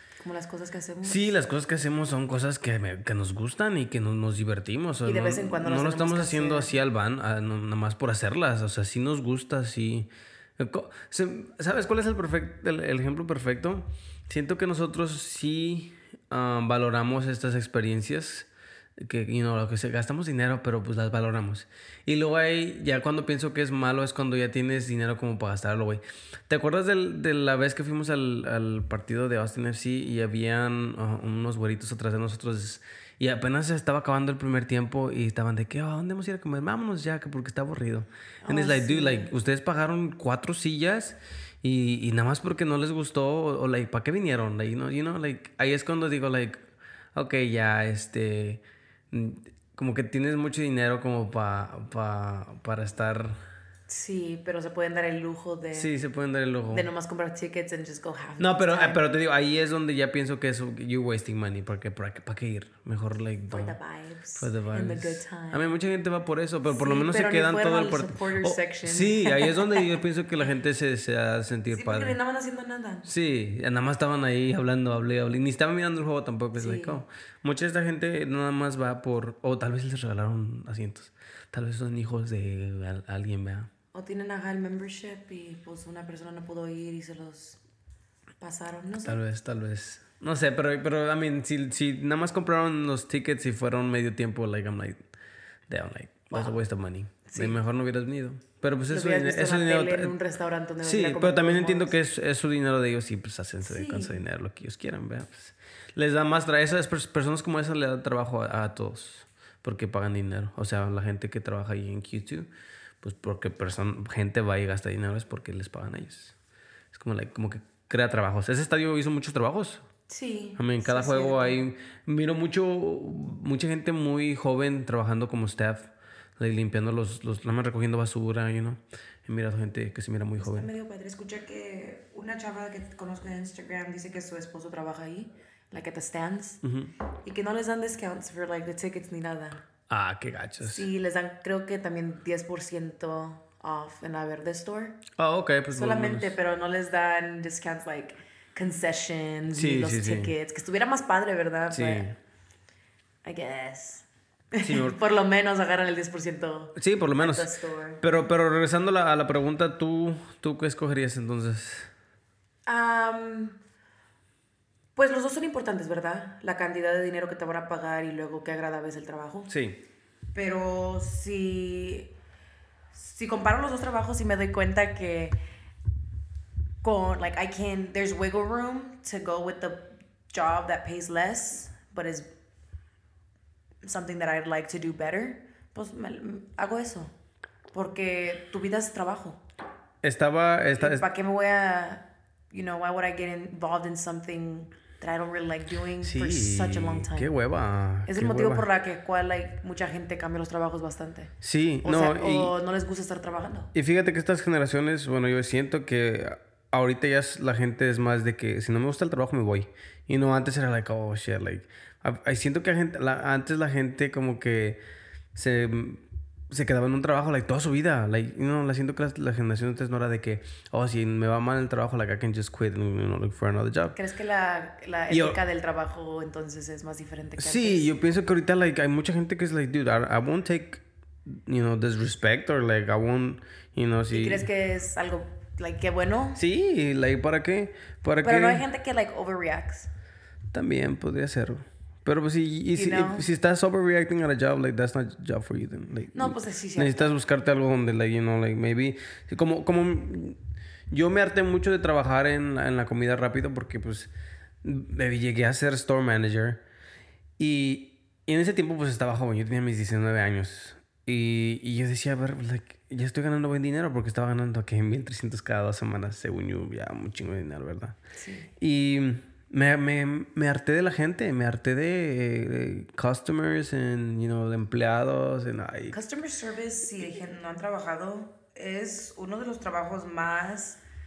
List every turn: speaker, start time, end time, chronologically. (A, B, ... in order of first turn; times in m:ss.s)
0:00.2-0:01.3 A
0:01.0-0:18.5 B
0:05.0-0:06.7 A
0:19.0-0:46.6 B
0:38.4-0:39.3 A
0:47.1-0:53.4 B
0:53.9-0:55.9 A
0:55.7-0:56.9 B
0:56.7-0:59.0 A
0:58.4-1:03.7 B
1:03.5-1:05.6 A
1:04.4-1:12.2 B
1:06.6-1:09.9 A
1:11.7-1:13.1 A
1:13.0-1:23.7 B
1:16.5-1:17.0 A
1:23.9-1:27.6 A
1:28.4-1:29.2 A
1:29.0-1:35.0 B
1:35.7-1:40.1 B
1:37.3-1:37.6 A
1:38.9-1:41.9 A
1:40.8-1:52.5 B
1:43.6-1:44.2 A
1:53.0-1:56.3 B
1:56.9-1:59.8 B
2:00.1-2:01.6 A
2:00.6-2:10.7 B
2:10.4-2:16.6 A
2:16.6-2:16.9 B
2:17.2-2:19.6 A
2:19.9-2:20.8 B
2:20.6-2:25.0 A
2:25.2-2:26.4 B
2:25.7-2:32.1 A
2:29.5-2:30.3 B
2:31.7-2:32.2 B
2:33.2-2:38.0 A
2:34.6-2:35.0 B
2:36.8-2:37.5 B
2:38.0-2:41.9 B
2:42.7-2:43.6 A
2:45.0-2:49.5 A
2:49.5-2:49.8 B
2:50.3-2:52.1 A
2:52.9-2:55.4 A
2:56.8-3:02.3 A
3:03.8-3:07.1 A
3:07.7-3:09.4 A
3:10.0-3:11.0 B
3:10.7-3:17.4 A
3:16.0-3:18.6 B
3:18.1-3:21.3 A
3:21.4-3:22.5 B
3:21.8-3:23.7 A
3:23.7-3:34.8 B
3:35.3-3:44.0 B
3:43.9-3:47.9 A
3:45.1-3:45.4 B
3:47.4-3:54.5 B
3:54.1-3:56.4 A
3:56.4-3:58.6 B
3:58.2-3:59.9 A
4:00.5-4:10.4 B
4:02.7-4:03.2 A
4:06.1-4:07.2 A
4:10.9-4:14.1 B
4:14.6-4:16.6 B
4:17.4-4:28.0 B
4:28.2-4:28.5 A
4:28.6-4:36.0 B
4:35.9-4:40.8 A